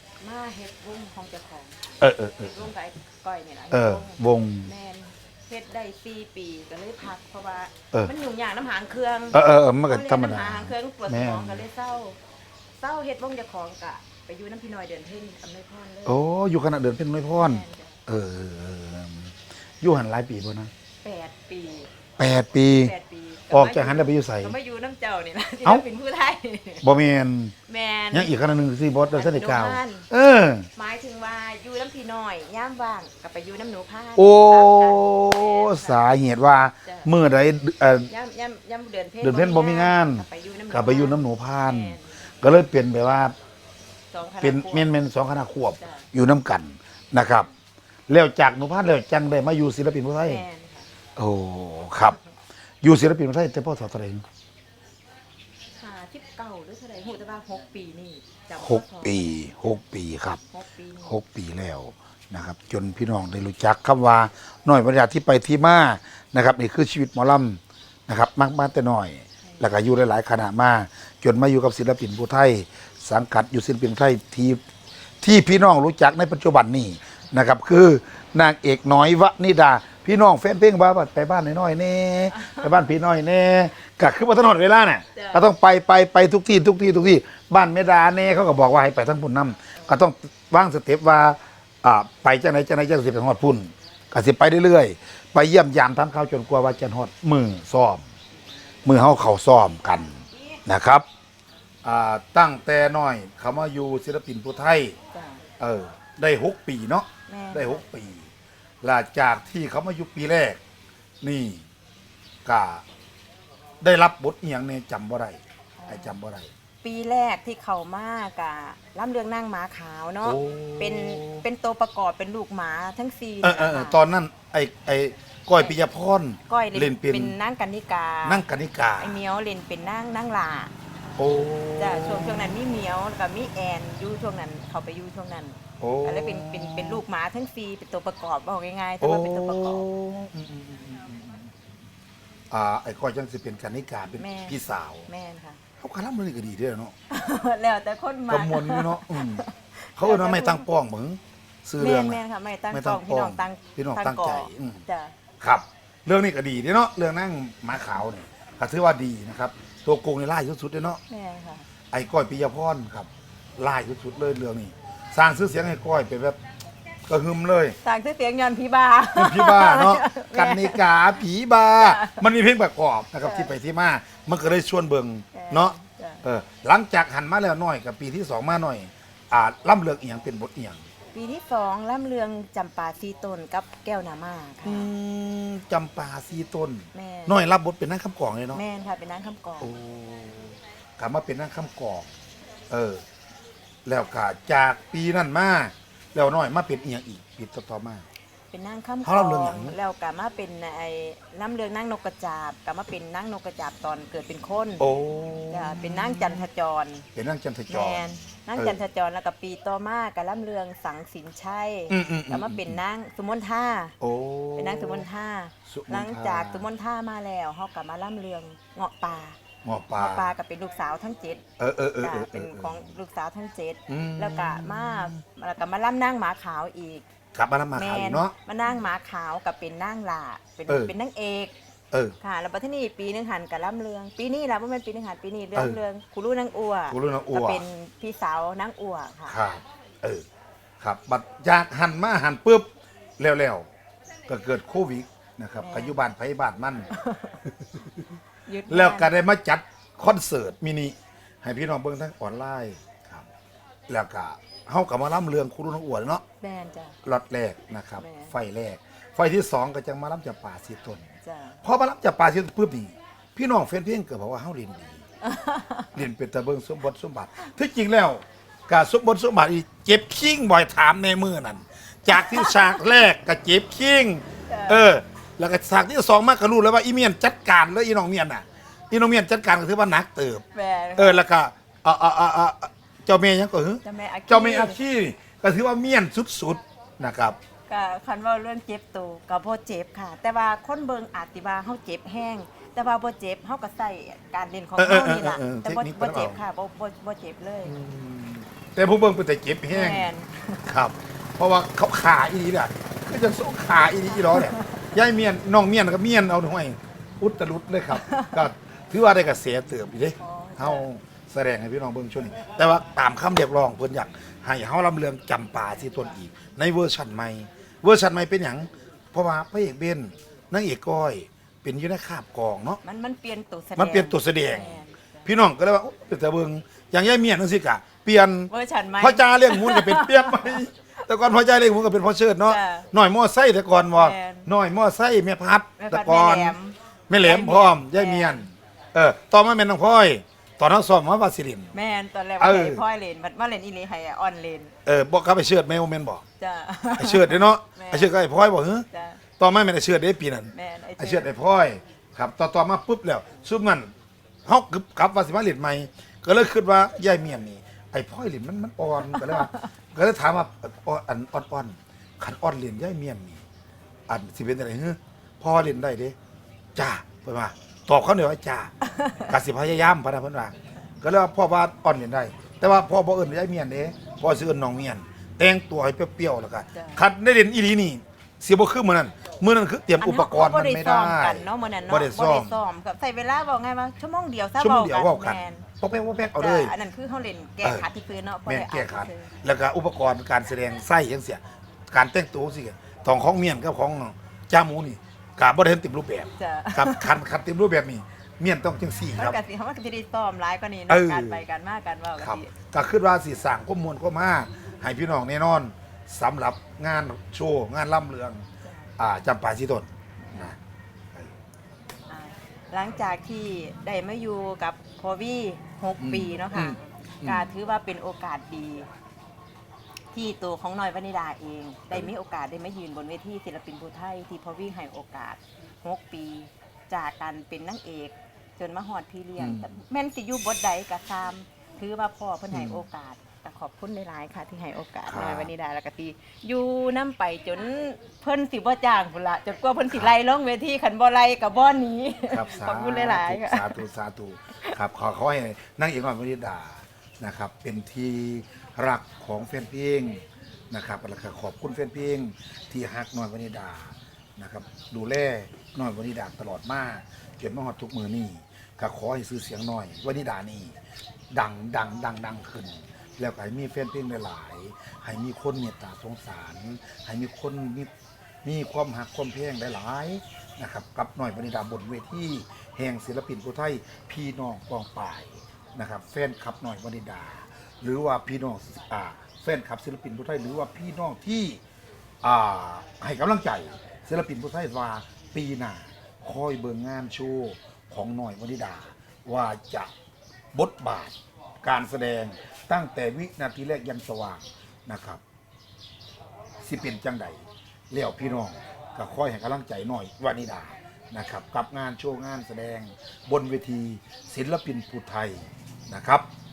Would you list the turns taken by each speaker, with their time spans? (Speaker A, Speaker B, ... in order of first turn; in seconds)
Speaker A: 0.2-1.8, 2.4-12.2, 12.8-16.2, 17.4-18.0, 21.0-21.9, 22.8-26.9, 27.7-28.3, 29.1-30.1, 30.8-36.0, 36.9-37.1, 38.1-42.1, 44.1-44.9, 45.8-46.1, 50.2-50.9, 55.8-59.5, 60.5-61.1, 69.4-69.7, 82.3-82.6, 85.2-85.5, 105.1-105.4, 107.3-107.8, 115.8-116.2, 116.8-124.0, 126.5-128.4, 129.0-130.7, 131.8-139.9, 144.2-145.6, 147.1-150.7, 151.8-155.1, 161.1-161.7, 167.8-170.8, 171.8-172.2, 173.2-173.5, 175.3-176.3, 181.1-184.9, 186.9-187.4, 188.5-189.7, 198.5-204.9, 205.5-207.1, 207.7-213.9, 214.6-219.4, 220.0-221.4, 222.0-227.1, 227.8-231.5, 232.2-239.4, 245.6-246.0, 246.9-247.4, 248.5-249.1, 256.4-257.0, 258.0-258.3, 261.2-261.6, 265.2-265.9, 272.1-272.8, 274.5-274.8, 280.5-281.2, 283.8-284.8, 287.7-297.8, 299.7-300.7, 304.2-304.8, 307.9-308.4, 310.2-310.9, 322.8-325.3, 328.5-330.6, 332.5-332.9, 333.9-334.5, 335.8-338.4, 341.7-344.7, 346.4-348.1, 348.9-349.2, 350.5-351.3, 359.2-359.5, 368.9-369.2, 376.7-377.0, 380.0-385.7, 386.4-389.3, 396.4-397.1, 399.1-402.5, 408.6-408.9, 412.1-418.9, 420.1-443.8
Speaker B: 2.0-2.6, 3.7-4.7, 9.3-11.7, 16.1-20.7, 22.2-22.9, 23.5-24.6, 26.8-27.5, 28.1-30.7, 34.2-38.1, 39.2-43.4, 44.4-47.5, 48.1-50.4, 51.2-52.2, 52.8-54.2, 58.6-60.4, 61.1-74.6, 75.2-98.0, 98.8-101.0, 101.8-105.0, 105.6-108.3, 108.8-110.6, 111.2-111.6, 112.5-112.8, 113.8-116.5, 120.2-121.5, 123.4-127.3, 128.2-129.2, 131.2-132.6, 135.8-137.0, 139.0-141.5, 142.5-145.1, 145.8-146.9, 148.3-149.4, 150.0-154.8, 155.4-161.0, 161.9-166.4, 167.1-167.8, 169.1-180.8, 184.6-188.6, 189.6-192.1, 192.7-193.0, 193.8-198.1, 199.1-199.8, 204.8-206.5, 207.1-208.8, 211.9-212.8, 214.0-215.1, 215.7-216.7, 219.6-220.3, 221.6-222.9, 223.9-225.2, 227.3-228.4, 230.7-230.9, 236.9-237.7, 239.3-240.2, 240.8-243.7, 244.3-246.9, 248.7-253.3, 253.9-256.2, 257.0-261.1, 261.6-265.0, 265.9-280.4, 281.0-287.4, 294.8-296.4, 297.6-300.1, 300.7-322.8, 323.8-336.6, 337.1-341.7, 342.4-342.8, 344.9-346.2, 346.9-348.9, 349.4-353.9, 354.5-363.4, 364.1-366.2, 366.8-368.7, 369.3-382.6, 384.6-386.8, 388.5-399.4, 400.9-401.4, 402.2-408.4, 409.0-410.6, 416.0-417.5, 429.4-429.7, 432.5-432.8, 435.1-435.5, 442.3-460.7, 461.3-467.9, 468.4-481.6, 482.2-489.9, 490.5-495.2, 496.6-506.3